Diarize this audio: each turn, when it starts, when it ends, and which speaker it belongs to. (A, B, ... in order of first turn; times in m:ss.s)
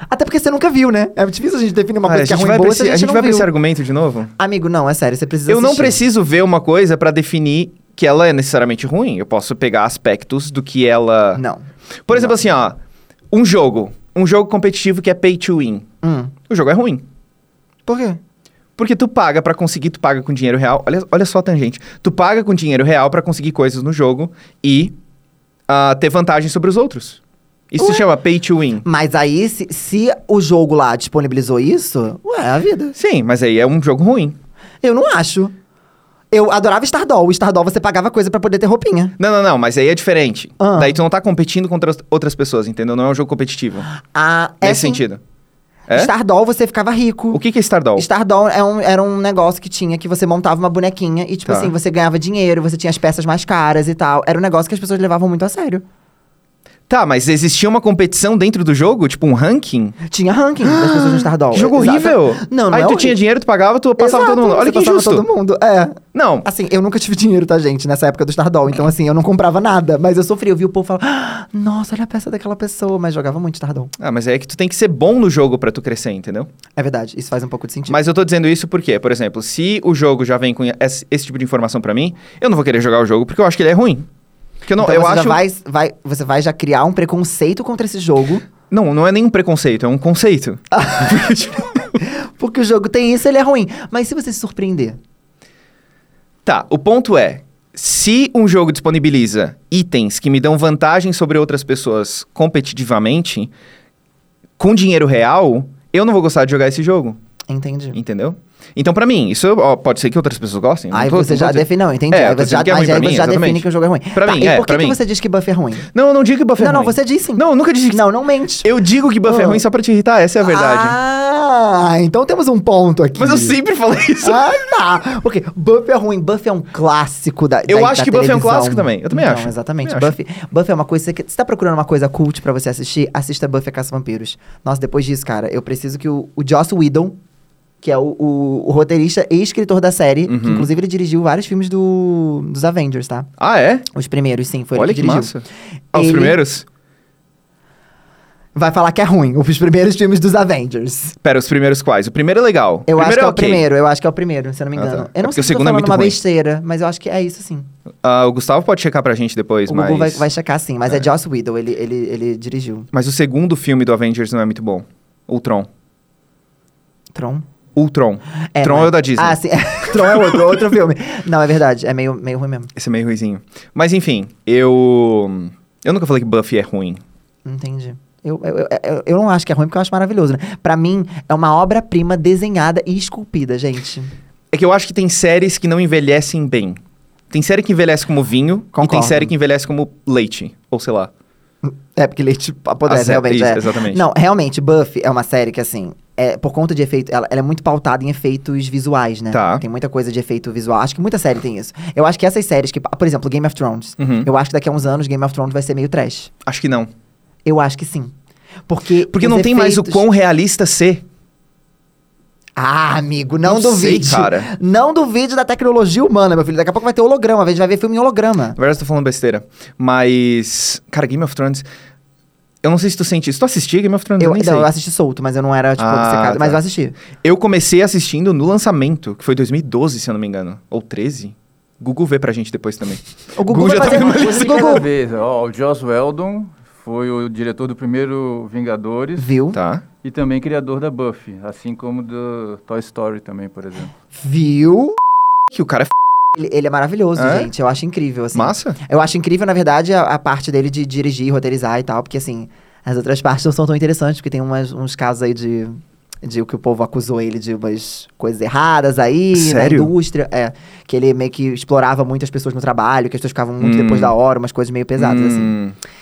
0:00.1-0:03.5 A
0:02.0-0:04.3 B
0:04.4-0:06.0 A
0:05.5-0:11.4 B
0:11.3-0:12.4 A
0:12.0-0:12.8 B
0:13.3-0:15.9 B
0:16.0-0:16.3 A
0:16.5-0:17.0 B
0:17.9-0:18.2 A
0:18.8-0:24.9 B
0:25.7-0:27.2 B
0:27.7-0:28.8 B
0:27.8-0:28.1 A
0:28.8-0:33.0 A
0:33.0-0:34.4 B
0:34.8-0:35.5 A
0:36.3-0:39.2 A
0:39.2-0:43.9 B
0:40.6-0:41.0 A
0:43.9-0:45.0 A
0:44.6-0:45.2 B
0:45.9-0:47.4 A
0:47.3-0:48.0 B
0:48.0-0:55.8 A
0:51.4-0:51.7 B
0:56.9-1:00.0 B
1:00.1-1:03.2 A
1:00.6-1:05.2 B
1:04.0-1:13.9 A
1:06.1-1:06.4 B
1:14.0-1:16.5 B
1:16.8-1:18.0 A
1:17.9-1:24.1 B
1:24.6-1:25.4 B
1:24.8-1:28.4 A
1:28.7-1:31.8 B
1:30.7-1:35.0 A
1:36.4-1:43.5 B
1:44.6-1:47.2 B
1:47.5-1:48.0 A
1:47.9-1:55.0 B
1:50.9-1:55.9 A
1:55.9-1:58.0 B
1:56.6-1:58.7 A
1:58.6-2:01.0 B
1:59.2-1:59.6 A
2:00.4-2:03.6 A
2:03.2-2:04.5 B
2:04.2-2:17.2 A
2:07.7-2:10.2 B
2:17.8-2:23.3 A
2:20.3-2:20.7 B
2:23.4-2:23.8 B
2:23.9-2:25.3 A
2:24.7-2:26.6 B
2:25.9-2:26.4 A
2:28.6-2:31.2 A
2:31.2-2:33.6 B
2:32.9-2:37.7 A
2:34.8-2:36.2 B
2:38.0-2:40.3 B
2:39.7-2:42.9 A
2:42.9-2:45.7 B
2:47.1-2:47.4 A
2:47.8-2:50.4 B
2:48.5-2:52.7 A
2:52.8-2:57.0 B
2:57.4-3:04.1 A
3:04.5-3:06.8 B
3:07.3-3:11.1 B
3:08.7-3:09.3 A
3:11.6-3:26.3 A
3:12.9-3:14.0 B
3:19.3-3:19.6 B
3:24.0-3:24.3 B
3:26.4-3:26.9 B
3:27.4-3:28.1 A
3:28.7-3:30.0 A
3:29.1-3:31.0 B
3:32.6-3:38.6 A
3:33.4-3:34.5 B
3:38.6-3:41.6 B
3:42.6-3:44.7 B
3:44.2-3:47.0 A
3:45.8-3:46.6 B
3:47.2-3:54.8 B
3:53.3-3:54.8 A
3:53.7-3:59.3 C
3:59.2-3:59.6 A
3:59.5-3:59.8 B
4:00.0-4:03.9 C
4:04.2-4:05.0 A
4:05.5-4:05.9 B
4:06.3-4:25.6 A
4:07.2-4:07.5 B
4:08.3-4:08.8 B
4:19.3-4:19.9 B
4:23.6-4:24.1 B
4:25.0-4:25.8 B